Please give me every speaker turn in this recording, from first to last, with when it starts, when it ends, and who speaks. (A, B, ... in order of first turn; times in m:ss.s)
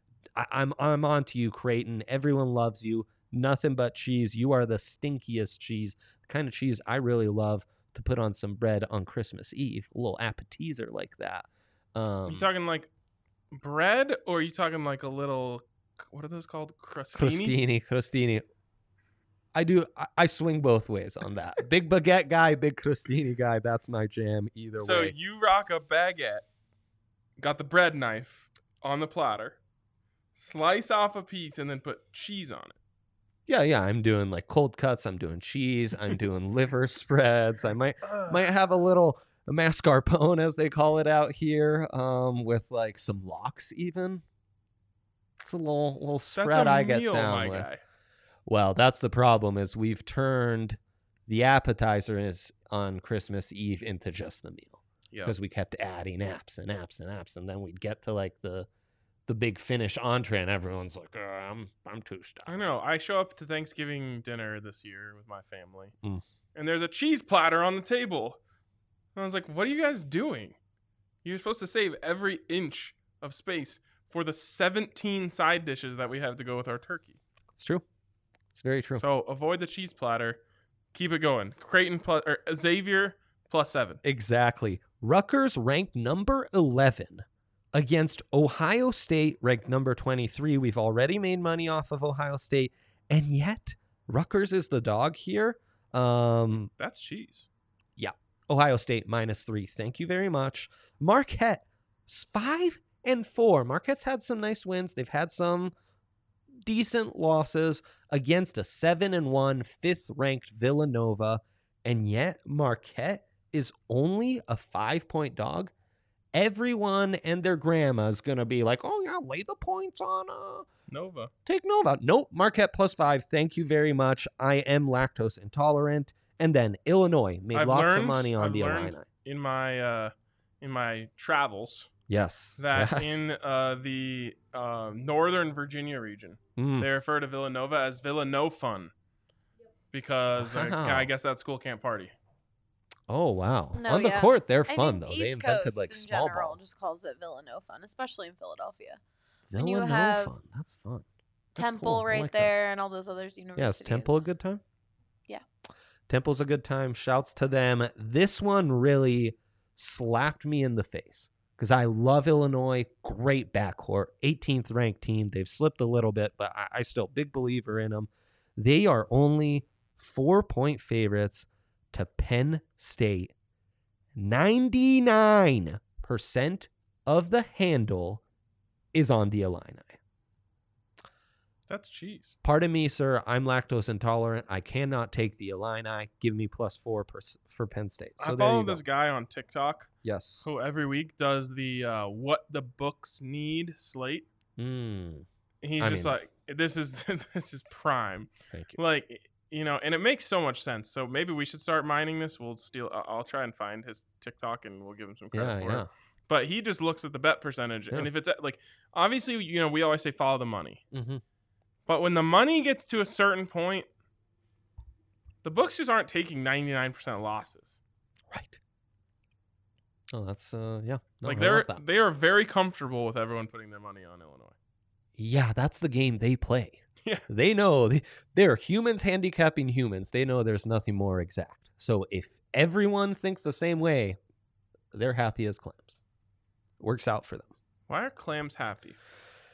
0:00.4-0:12.5 A
0:12.3-0:12.9 B
0:13.5-0:17.6 B
0:17.1-0:18.4 A
0:19.5-0:25.2 A
0:24.8-0:26.5 B
0:27.4-0:29.6 B
0:30.4-0:32.8 B
0:33.5-0:44.2 A
0:38.0-0:38.4 B
0:45.4-0:47.7 A
0:46.4-0:47.8 B
0:48.5-0:58.7 A
0:59.3-1:02.7 A
1:02.5-1:06.0 B
1:06.6-1:08.4 B
1:09.2-1:10.6 B
1:11.2-1:17.2 B
1:17.5-1:17.8 A
1:18.5-1:19.0 A
1:19.0-1:20.4 B
1:20.9-1:24.0 B
1:24.0-1:36.7 A
1:36.8-1:37.5 B
1:38.0-1:45.7 A
1:46.6-1:55.7 A
1:56.3-2:00.7 A
2:00.9-2:01.3 B
2:01.5-2:09.0 A
2:07.5-2:11.9 B
2:12.1-2:13.2 A
2:12.6-2:18.9 B
2:16.6-2:16.9 A
2:19.9-2:22.1 B
2:20.4-2:21.1 A
2:23.1-2:26.6 A
2:23.8-2:29.0 C
2:29.5-2:32.6 A
2:29.6-2:30.3 C
2:31.6-2:34.2 C
2:33.6-2:34.6 A
2:36.1-2:53.3 A
2:54.2-2:58.2 A
2:58.9-3:00.0 A
3:01.7-3:02.4 B
3:02.4-3:08.8 A
3:08.2-3:09.9 B
3:10.0-3:10.5 A
3:10.4-3:14.3 B
3:14.6-3:15.3 A
3:15.6-3:30.8 B
3:15.8-3:16.2 A
3:18.5-3:18.8 A
3:25.3-3:25.9 A
3:30.9-3:31.2 A
3:31.9-3:33.9 B
3:35.4-3:37.8 B
3:38.3-3:38.6 A
3:40.1-3:41.8 A
3:41.2-3:44.6 B
3:45.2-3:54.2 A
3:54.9-3:56.0 A
3:56.8-3:57.5 A
3:57.9-3:59.0 B